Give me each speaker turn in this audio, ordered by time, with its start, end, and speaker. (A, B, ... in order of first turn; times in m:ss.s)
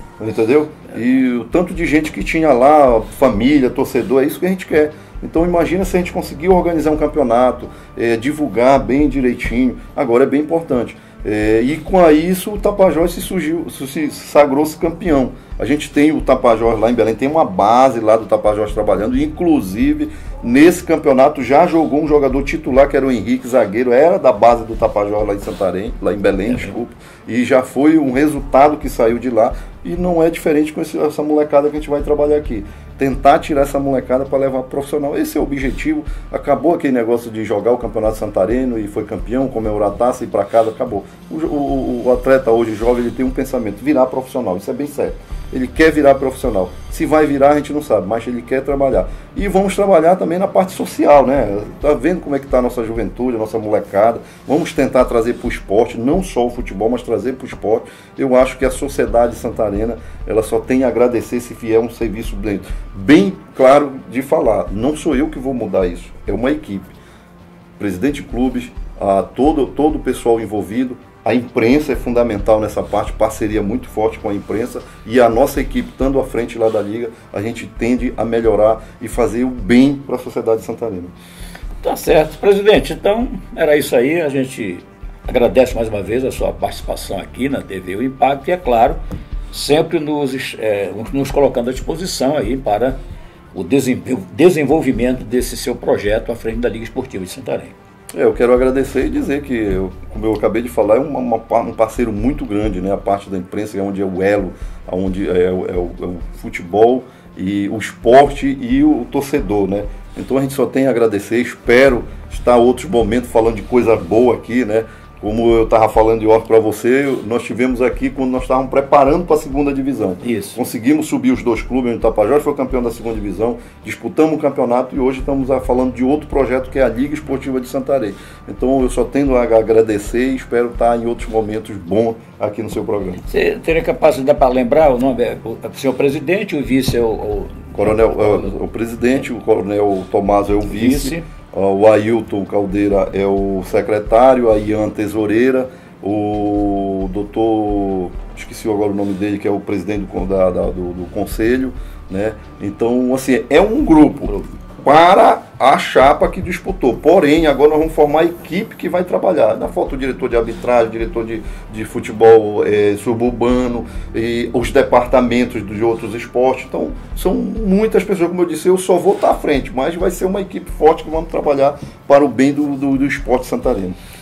0:00.2-1:06.9 A
0:26.4-0:26.8 B
1:07.8-1:21.1 A
1:21.8-1:29.0 B
1:29.5-1:33.0 B
1:33.5-1:37.7 B
1:38.1-2:13.2 A
2:00.2-2:00.6 B
2:13.2-2:18.6 B
2:17.8-2:54.0 A
2:20.7-2:21.2 B